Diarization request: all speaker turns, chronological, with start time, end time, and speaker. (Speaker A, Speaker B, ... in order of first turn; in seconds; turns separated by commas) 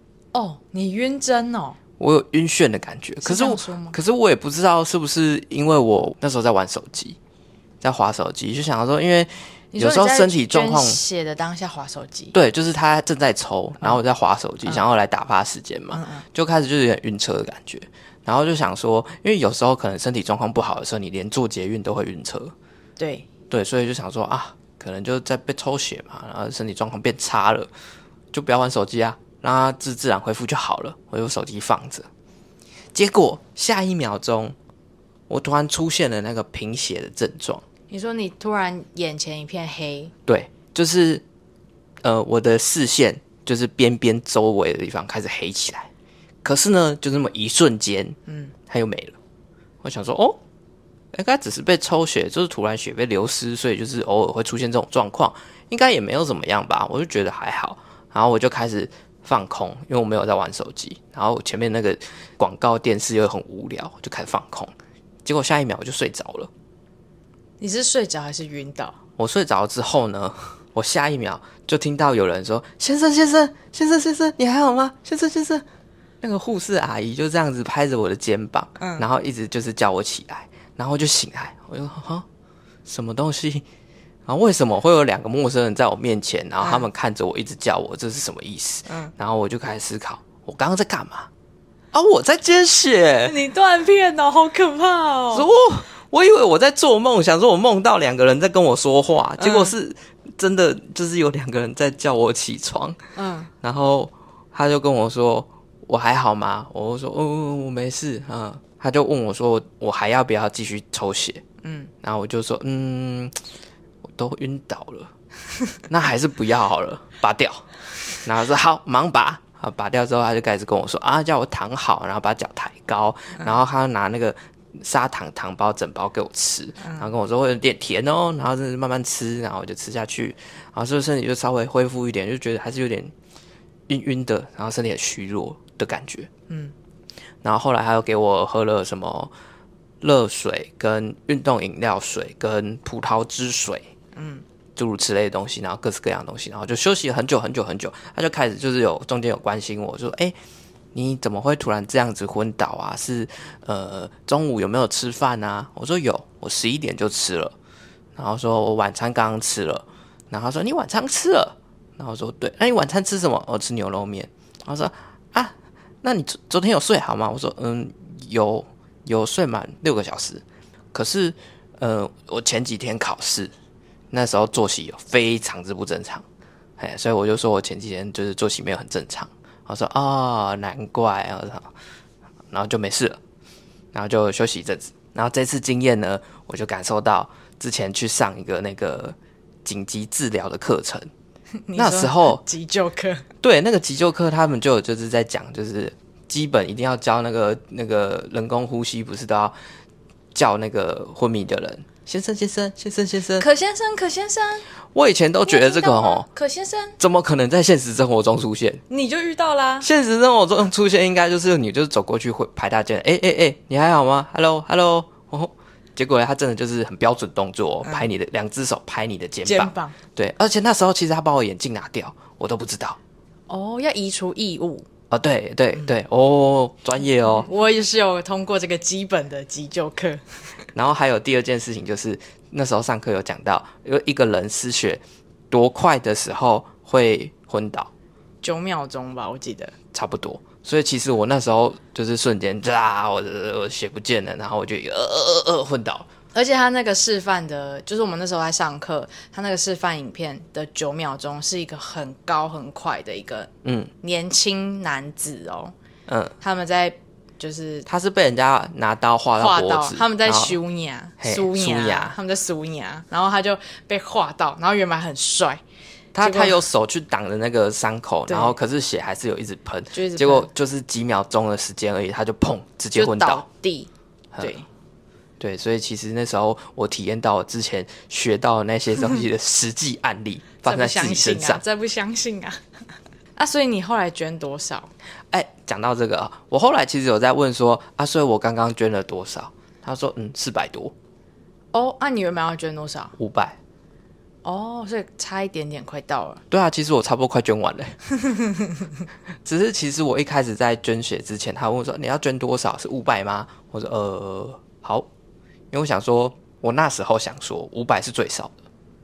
Speaker A: 0.3-1.8, Speaker B: 2.0-7.2, Speaker A: 3.2-4.0, Speaker B: 7.8-11.0, Speaker A: 9.7-12.3, Speaker B: 12.3-22.5, Speaker A: 15.9-16.2, Speaker A: 23.0-23.3, Speaker B: 23.5-27.7, Speaker B: 28.3-32.1, Speaker B: 33.0-34.5, Speaker B: 35.3-37.6, Speaker A: 37.9-40.1, Speaker B: 40.3-41.2, Speaker B: 42.0-45.9, Speaker B: 46.4-48.2, Speaker A: 48.3-48.5, Speaker B: 48.7-49.2, Speaker B: 49.8-50.4, Speaker B: 51.1-64.7, Speaker B: 65.2-66.5, Speaker A: 67.6-69.0, Speaker B: 69.2-75.7, Speaker B: 76.2-82.2, Speaker A: 78.8-79.0, Speaker B: 82.9-83.7, Speaker B: 84.3-91.3, Speaker A: 86.6-86.9, Speaker B: 91.9-93.4, Speaker A: 93.3-95.5, Speaker B: 95.3-103.0, Speaker A: 99.4-99.7, Speaker A: 103.2-103.5, Speaker B: 103.6-111.4, Speaker A: 111.6-111.9, Speaker B: 112.0-113.3, Speaker B: 114.0-115.1, Speaker B: 115.8-133.1, Speaker B: 133.9-136.3, Speaker A: 136.5-136.7, Speaker B: 137.4-139.3, Speaker B: 140.0-143.9, Speaker A: 144.2-144.4, Speaker B: 144.8-150.3, Speaker B: 150.9-157.6, Speaker B: 158.2-173.5, Speaker B: 174.1-176.2, Speaker B: 176.8-181.7, Speaker B: 182.5-183.2, Speaker B: 183.9-191.1, Speaker A: 191.7-193.3, Speaker B: 191.8-192.4, Speaker B: 193.4-199.6, Speaker B: 200.3-203.5, Speaker A: 203.4-204.7, Speaker B: 204.9-206.3, Speaker A: 205.4-207.0, Speaker B: 207.0-208.8, Speaker A: 208.9-209.9, Speaker B: 209.8-223.0, Speaker A: 217.8-218.1, Speaker A: 219.4-220.0, Speaker A: 223.5-224.9, Speaker B: 225.1-227.5, Speaker A: 227.4-230.2, Speaker B: 230.8-237.9, Speaker A: 238.4-239.7, Speaker B: 239.9-246.1, Speaker A: 246.3-255.7, Speaker B: 253.6-253.9, Speaker B: 256.1-256.4, Speaker A: 256.4-257.9, Speaker B: 257.9-260.6, Speaker A: 259.4-265.6, Speaker B: 261.2-262.2, Speaker B: 266.1-273.4, Speaker A: 266.2-266.6, Speaker A: 268.3-268.6, Speaker A: 269.9-270.5, Speaker A: 272.9-273.9, Speaker A: 274.4-274.7, Speaker B: 275.4-281.6, Speaker A: 280.6-282.6, Speaker A: 283.4-284.9, Speaker B: 285.3-290.9, Speaker A: 291.7-293.1, Speaker B: 293.2-293.6, Speaker A: 294.4-296.4, Speaker B: 296.5-298.0, Speaker A: 298.2-298.9, Speaker B: 299.4-305.1, Speaker B: 305.7-308.6